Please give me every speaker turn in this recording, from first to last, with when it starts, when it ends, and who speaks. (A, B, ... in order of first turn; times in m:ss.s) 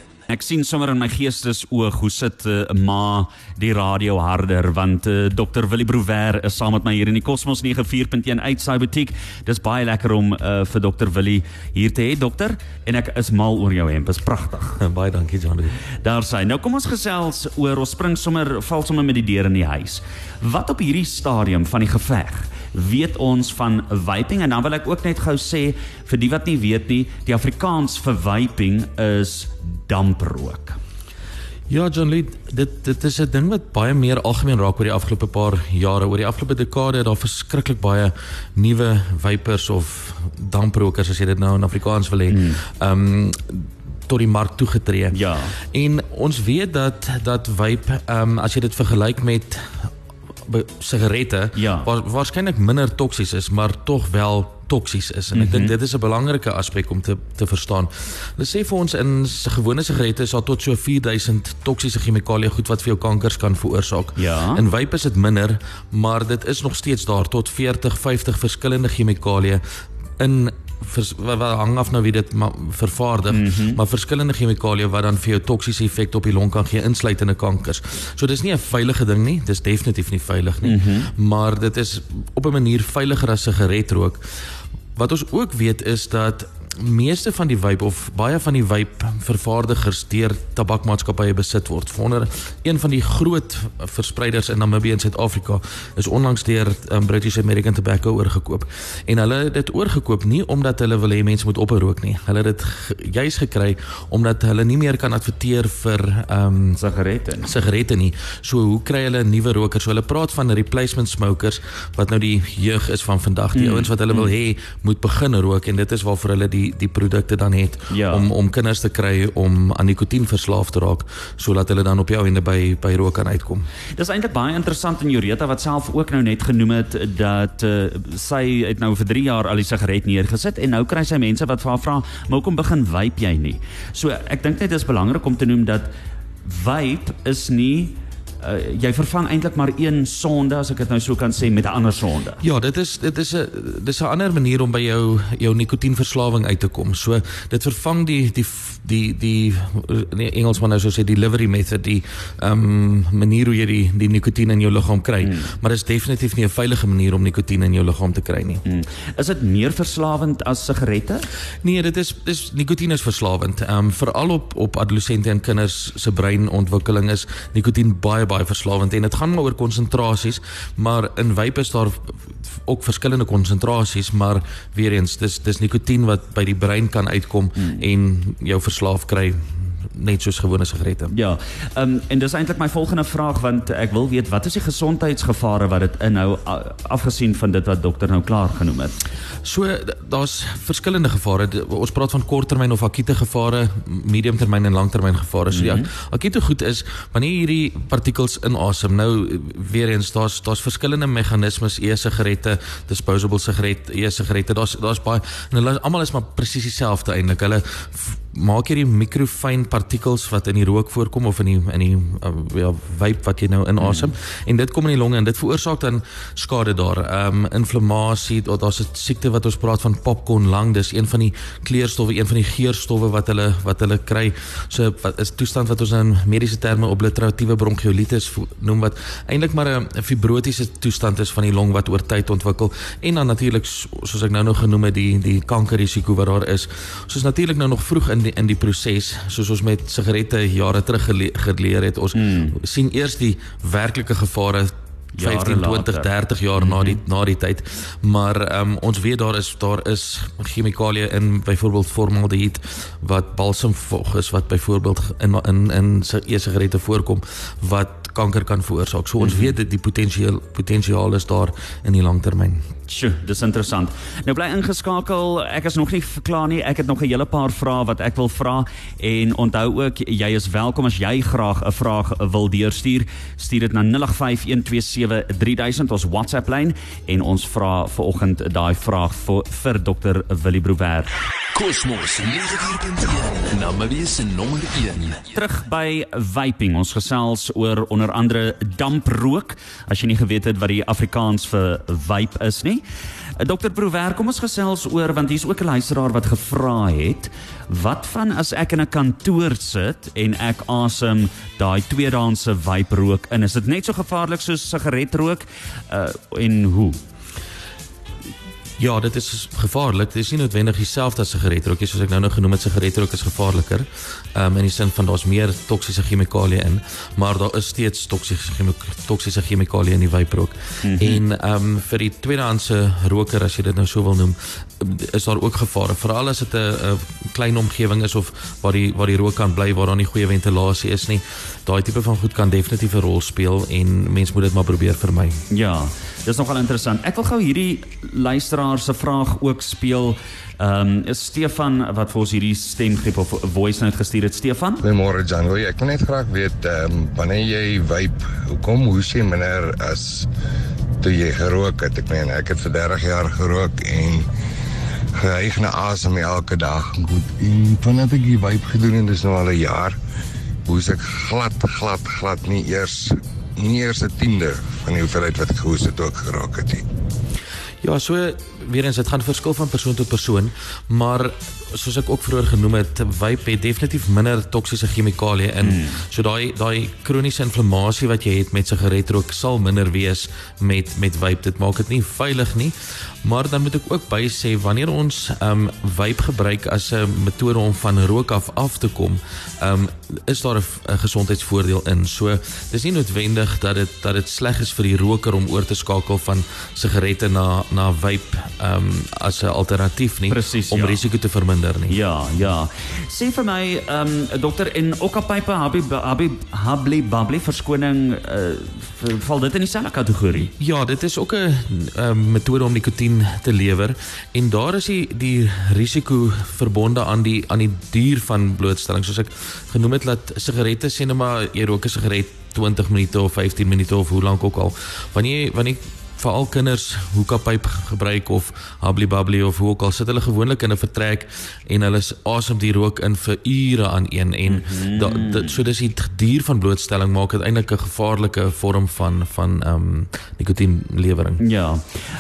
0:00.3-0:14.8 A
0:14.8-0:15.8 B
0:16.0-0:30.8 A
0:31.7-0:45.2 B
0:42.3-0:42.6 A
0:45.1-0:45.5 A
0:45.7-0:49.9 B
0:50.5-1:09.6 B
0:51.6-0:51.9 A
0:55.3-0:55.8 A
1:04.2-1:04.6 A
1:10.2-1:24.2 B
1:13.3-1:13.8 A
1:20.6-1:21.1 A
1:25.0-1:46.8 B
1:46.8-1:47.5 A
1:47.4-2:03.7 B
1:53.6-1:54.3 A
1:57.9-1:58.3 A
2:04.0-2:15.9 A
2:16.4-2:22.4 A
2:22.4-2:38.6 B
2:38.6-2:41.3 A
2:41.6-3:01.1 B
3:01.1-3:09.0 A
3:09.4-4:22.6 B
3:15.5-3:15.9 A
3:33.8-3:34.1 A
4:02.2-4:02.5 A
4:05.2-4:07.0 A
4:19.2-4:19.6 A
4:22.9-4:41.1 A
4:41.5-4:45.2 C
4:45.3-4:52.8 A
4:53.4-5:07.0 A
5:08.8-5:35.4 B
5:20.8-5:21.2 A
5:35.5-5:44.8 A
5:44.8-5:50.3 D
5:51.0-5:54.3 D
5:55.2-6:00.0 D
6:00.7-6:06.8 D
6:07.8-6:42.0 B
6:15.6-6:15.9 A
6:40.3-6:41.0 A
6:41.9-6:50.5 A
6:50.4-7:21.4 B
7:14.5-7:15.6 A
7:21.4-7:21.8 A